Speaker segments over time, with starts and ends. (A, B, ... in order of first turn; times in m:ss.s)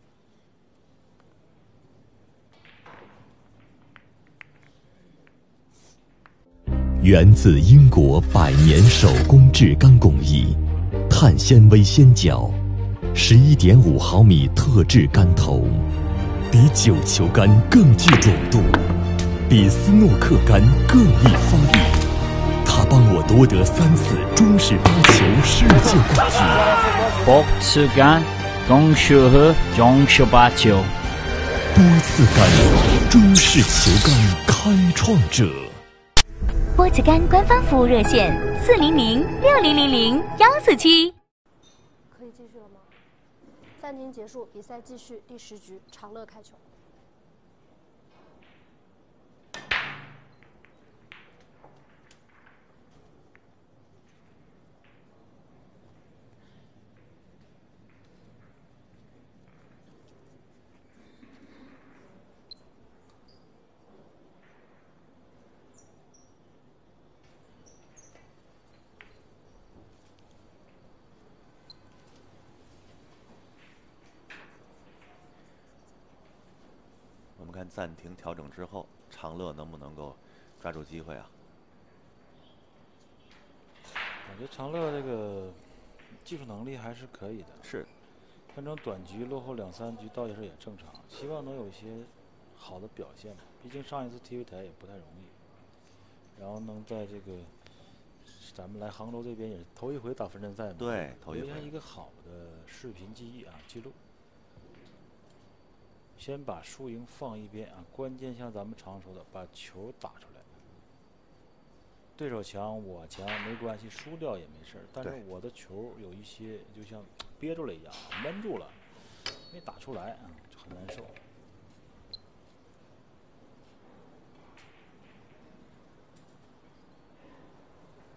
0:07.0-0:12.6 A
0:13.1-0:15.9 A
0:16.5-0:18.9 A
0:19.5-0:22.0 A
0:22.6-0:26.8 A
0:27.2-0:30.9 B
0:31.7-0:35.8 A
0:36.8-0:41.1 C
0:42.1-0:42.9 D
0:43.8-0:46.6 D
1:17.4-1:21.3 E
1:24.2-1:27.6 F
1:27.6-1:27.9 E
1:28.5-1:35.4 F
1:36.3-1:37.5 F
1:38.2-1:44.0 F
1:40.8-1:41.7 E
1:46.2-1:50.5 F
1:52.2-2:01.2 F